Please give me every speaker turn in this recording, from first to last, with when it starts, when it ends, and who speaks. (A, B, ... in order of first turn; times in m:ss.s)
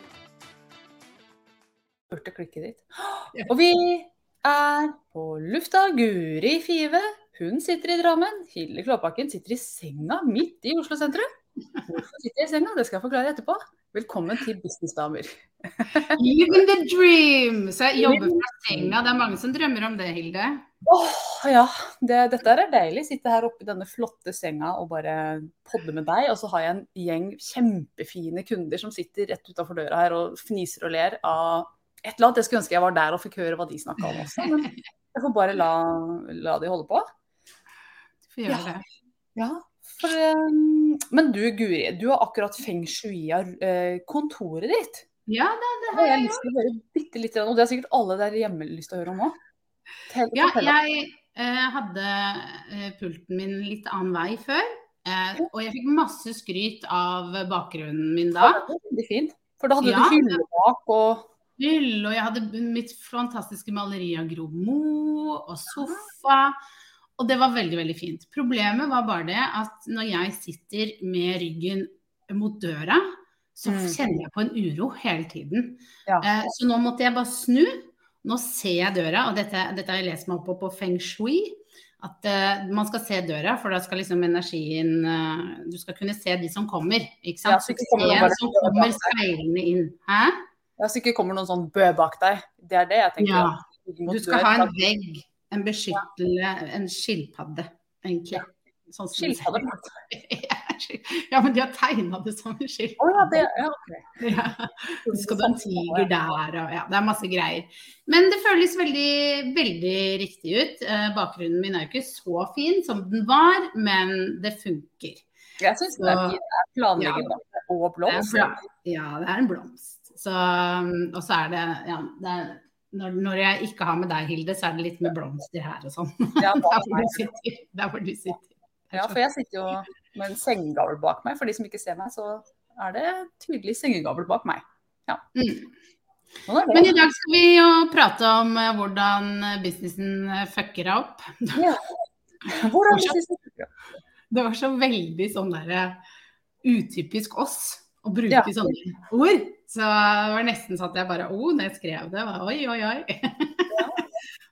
0:02.1-0:11.3 A
0:11.8-0:16.2 A
0:16.1-0:20.6 B
0:18.0-0:18.9 A
0:20.8-0:37.1 A
0:38.3-0:38.8 B
0:38.5-0:38.7 A
0:39.3-0:45.0 A
0:45.3-0:46.5 B
0:45.9-0:49.4 A
0:50.1-0:50.7 A
0:50.3-0:58.6 B
0:58.4-1:01.3 A
0:59.8-1:00.4 B
1:01.6-1:06.6 B
1:07.2-1:30.4 B
1:13.6-1:14.0 A
1:27.4-1:29.1 A
1:30.8-1:34.7 A
1:33.2-1:43.4 B
1:39.2-1:40.0 A
1:43.0-1:44.2 A
1:44.2-1:55.2 B
1:45.0-1:46.1 A
1:55.6-1:58.6 A
1:56.0-1:56.4 B
1:57.0-1:57.3 B
1:58.0-2:09.2 B
2:06.4-2:07.3 A
2:08.9-2:15.2 A
2:15.3-2:15.7 B
2:16.5-2:16.9 A
2:16.7-2:21.6 B
2:21.6-2:21.9 A
2:22.5-2:23.7 A
2:22.9-2:23.2 B
2:24.3-2:26.0 B
2:26.6-2:33.9 B
2:28.3-2:28.6 A
2:33.7-2:34.0 A